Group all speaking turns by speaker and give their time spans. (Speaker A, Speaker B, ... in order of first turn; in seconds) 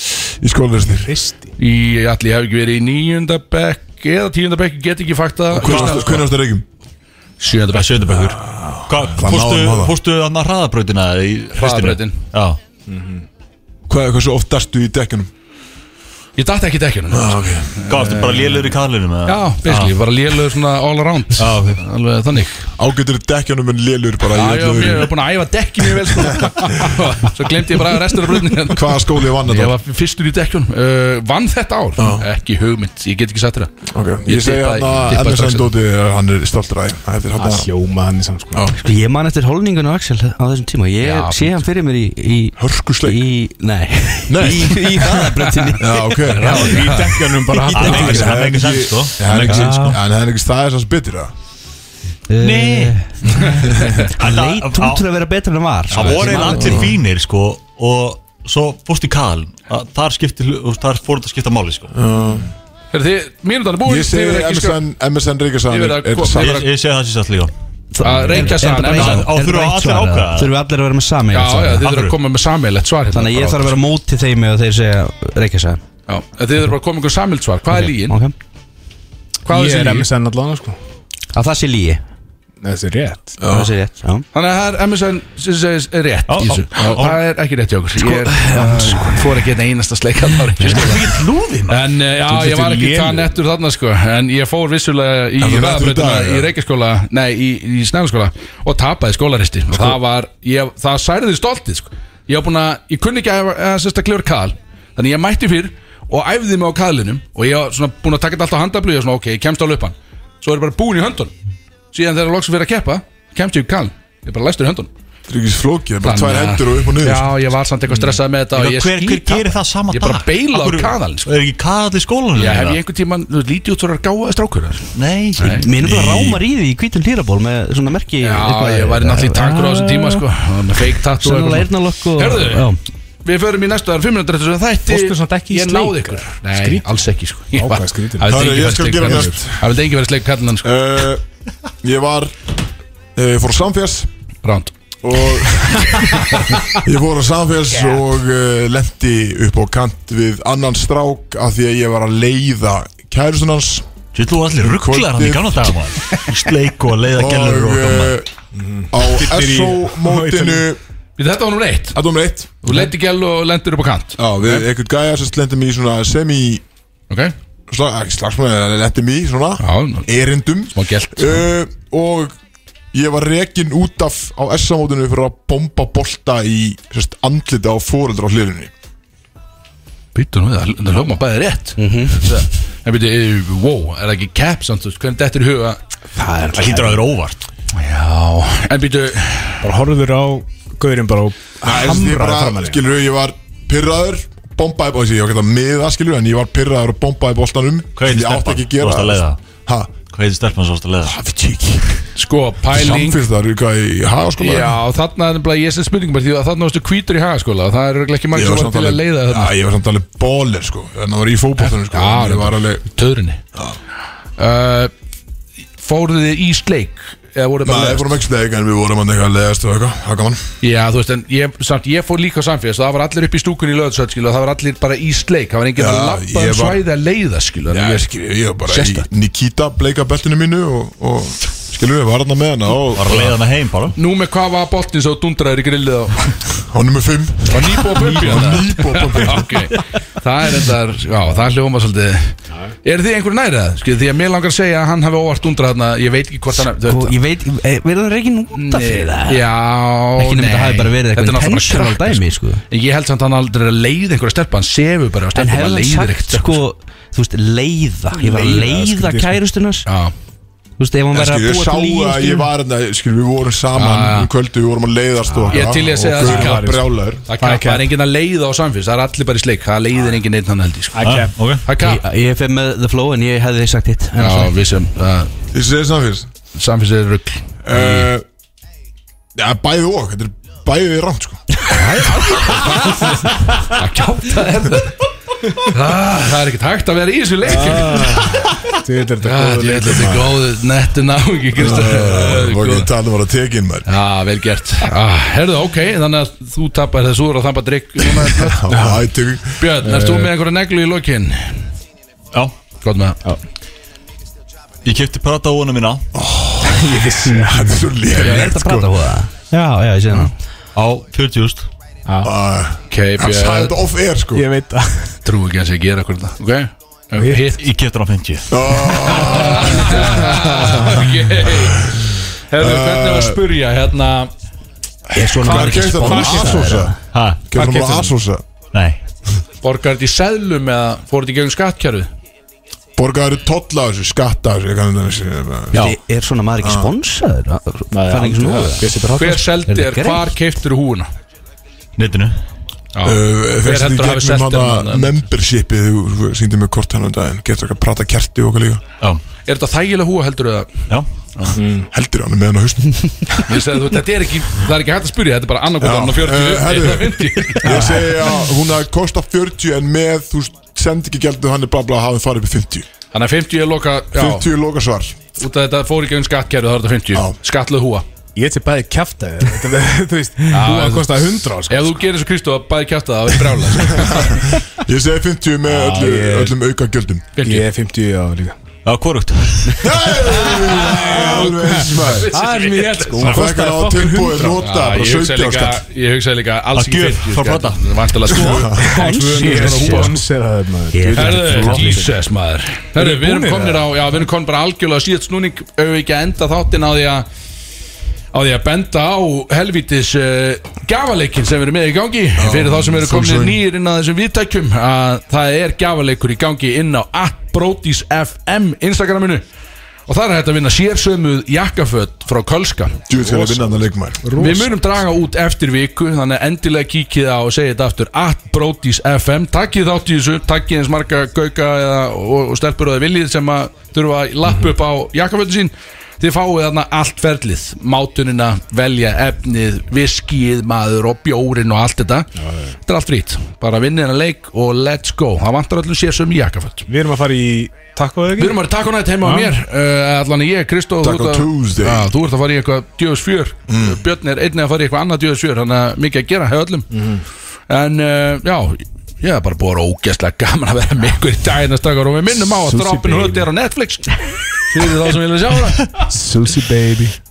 Speaker A: 0.4-1.1, 5.5-6.6, 8.1-9.9, 13.9-15.3, 17.1-18.1, 22.8-25.1, 26.0-26.9, 28.7-29.7, 32.0-32.2, 33.9-37.7, 38.5-38.8, 42.6-43.2, 44.3-45.2, 45.8-46.8, 47.8-51.3, 56.4-56.9, 61.9-62.5, 63.8-66.7, 83.4-83.7, 86.7-87.0, 95.4-96.5, 115.3-117.3, 125.4-126.4, 138.3-139.7, 140.6-141.2, 141.8-142.3, 143.1-144.1, 145.0-153.9, 154.6-155.7, 157.1-158.3, 158.9-160.8, 161.9-162.8, 164.2-166.6, 167.7-172.3, 172.9-178.7, 191.6-199.9, 201.0-202.0, 202.7-204.8, 208.3-212.8, 217.6-220.4, 225.8-226.8, 227.7-233.4, 236.6-239.7, 261.1-267.2, 275.5-276.3, 277.6-278.2, 279.3-281.5, 291.6-293.9, 298.0-299.9, 306.1-309.0, 312.2-314.4, 318.5-323.4, 325.2-328.4, 332.9-335.9, 336.6-336.9, 343.0-348.8, 351.9-353.4, 355.8-362.9, 364.1-365.2, 374.0-377.2, 379.8-382.3, 383.2-385.8, 388.3-388.9, 402.4-403.6, 413.1-414.2, 441.0-442.1, 443.7-444.0
Speaker B: 1.0-1.5, 12.9-13.2, 37.4-38.7, 46.4-48.4, 79.5-80.8, 82.6-83.4, 92.3-93.3, 134.9-136.8, 137.5-139.3, 158.6-160.7, 186.1-187.1, 189.6-192.8, 258.2-259.4, 265.3-267.9, 270.9-271.5, 287.4-290.4, 298.7-299.0, 299.8-300.3, 306.6-307.9, 312.1-312.3, 314.3-315.2, 317.1-317.4, 326.0-326.5, 327.5-328.1, 337.9-339.6, 351.5-351.9, 357.6-358.1, 368.4-372.0, 375.9-376.5, 377.4-378.5, 380.5-384.6, 388.7-392.1, 392.9-394.2, 413.2-414.9, 424.5-424.7, 432.4-432.8, 436.9-438.6, 439.2-439.5, 446.9-447.2, 452.5-453.5, 456.0-457.1
Speaker C: 1.6-6.2, 7.4-8.3, 11.5-12.2, 16.4-18.6, 19.2-22.7, 24.3-33.7, 34.2-35.7, 41.0-41.6, 45.6-47.2, 55.9-56.5, 62.9-64.8, 65.7-66.7, 68.0-69.3, 71.3-73.8, 76.1-78.2, 79.4-80.1, 84.3-91.1, 91.7-111.3, 111.9-114.9, 116.0-121.3, 122.3-125.7, 128.2-132.7, 133.2-140.7, 144.4-144.7, 146.1-146.6, 161.2-161.9, 162.6-164.7, 169.6-170.1, 170.7-171.5, 180.1-185.8, 187.7-189.7, 202.2-203.2, 204.4-209.5, 211.6-213.4, 214.4-214.9, 215.8-218.1, 220.6-228.1, 228.6-229.1, 233.9-236.4, 237.5-247.1, 248.5-256.6, 259.9-260.1, 263.7-264.3, 265.5-272.0, 274.1-275.3, 276.5-278.1, 281.7-285.0, 285.5-288.4, 289.2-292.9, 293.9-298.6, 299.6-301.7, 302.8-303.2, 308.1-308.4, 312.9-313.8, 315.2-317.6, 319.1-324.3, 325.7-326.4, 329.6-332.1, 339.1-341.1, 342.9-345.1, 349.4-351.5, 353.4-358.0, 363.1-364.4, 365.4-368.0, 370.5-374.4, 377.4-377.7, 380.4-381.4, 382.0-383.2, 384.6-390.2, 391.1-397.2, 398.3-409.4, 410.1-413.0, 414.4-432.3, 432.9-436.9, 438.4-446.9, 447.7-455.9
Speaker D: 5.6-6.2, 7.7-12.6, 17.9-19.9, 21.4-21.8, 47.7-50.0, 52.4-55.0, 55.9-61.9, 66.4-67.5, 68.0-70.5, 71.8-72.2, 86.3-87.2, 90.6-91.8, 118.5-122.8, 124.9-125.6, 154.1-158.2, 186.5-187.4, 197.9-199.4, 200.1-201.2, 232.9-233.9, 271.0-271.6, 304.8-306.1, 310.7-311.7, 317.6-318.5, 327.1-327.4, 328.7-329.0, 342.0-342.4, 350.9-351.6, 378.8-380.2, 386.7-387.8
Speaker E: 38.8-46.0, 47.6-48.4, 49.5-50.0, 52.3-56.9, 67.9-71.8, 73.1-75.8, 77.8-78.3, 81.3-82.0, 83.4-84.2, 88.4-89.2, 125.6-130.2, 131.2-132.8, 181.8-182.3, 246.6-249.5, 250.2-252.6, 255.3-259.9, 260.8-262.5, 271.8-274.5, 281.7-283.0, 308.1-310.3, 325.1-327.0, 335.7-338.9, 339.7-340.3, 388.3-390.1, 390.9-392.2